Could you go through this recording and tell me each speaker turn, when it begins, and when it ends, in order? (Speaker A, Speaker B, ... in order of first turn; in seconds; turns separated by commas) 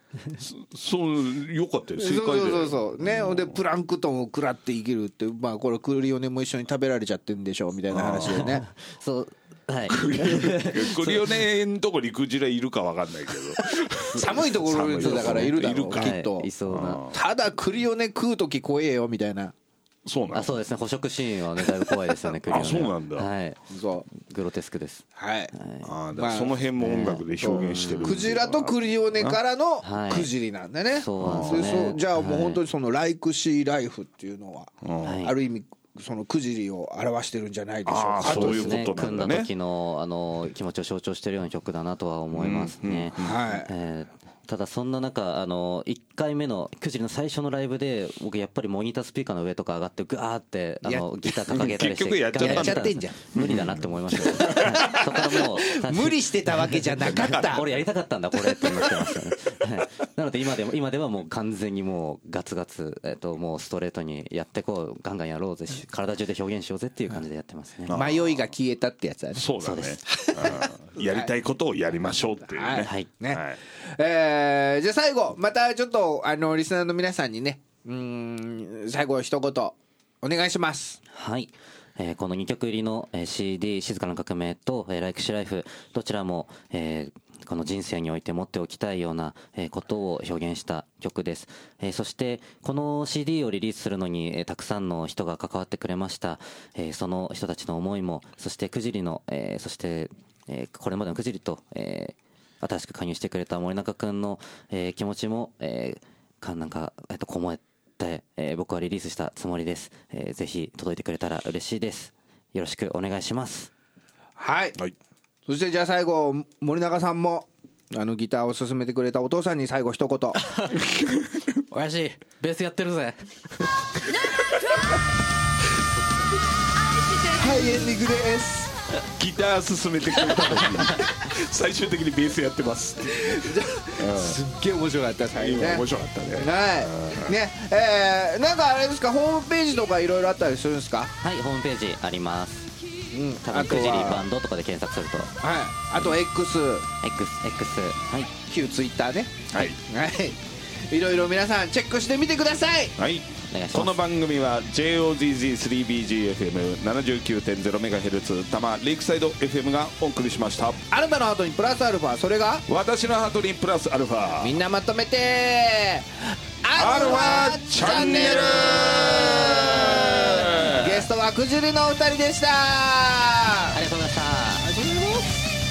Speaker A: 0.4-3.6, Speaker B: 2.0-8.7, Speaker A: 7.9-8.5, Speaker C: 8.3-11.2, Speaker A: 9.9-17.2, Speaker C: 14.1-14.4, Speaker B: 14.1-16.5, Speaker C: 14.9-17.0, Speaker B: 17.1-19.5, Speaker A: 20.0-20.5, Speaker C: 20.3-25.9, Speaker A: 22.5-23.3, Speaker B: 23.7-24.1, Speaker B: 25.1-25.5, Speaker A: 25.8-29.4, Speaker B: 26.1-26.6, Speaker C: 26.8-28.3, Speaker B: 27.4-38.9, Speaker C: 29.8-30.3, Speaker C: 30.9-32.6, Speaker A: 31.2-31.6, Speaker A: 34.8-35.2, Speaker C: 35.0-35.4, Speaker A: 37.9-39.5, Speaker C: 38.2-68.0, Speaker A: 42.3-43.4, Speaker B: 43.1-43.7, Speaker B: 50.8-51.1, Speaker A: 51.3-55.0, Speaker B: 52.3-53.2, Speaker B: 54.1-57.6, Speaker A: 57.0-57.7, Speaker A: 67.9-68.5, Speaker B: 67.9-71.3, Speaker A: 69.3-73.6, Speaker C: 69.6-70.0, Speaker B: 72.4-81.0, Speaker C: 72.8-73.1, Speaker C: 81.1-113.7, Speaker B: 114.4-114.8, Speaker B: 115.5-120.4, Speaker D: 120.4-120.8, Speaker A: 120.7-121.5, Speaker D: 121.7-123.3, Speaker B: 127.3-128.7, Speaker A: 129.2-134.4, Speaker B: 133.3-141.1, Speaker A: 135.3-137.3, Speaker C: 141.2-142.7, Speaker B: 143.1-144.3, Speaker C: 143.4-145.3, Speaker B: 145.4-146.9, Speaker C: 147.0-148.3, Speaker B: 148.5-152.9, Speaker A: 149.5-149.8, Speaker A: 153.0-160.8, Speaker C: 153.5-154.0, Speaker B: 160.9-162.6, Speaker A: 162.7-164.6, Speaker B: 164.4-173.8, Speaker A: 166.8-171.0, Speaker C: 173.7-174.7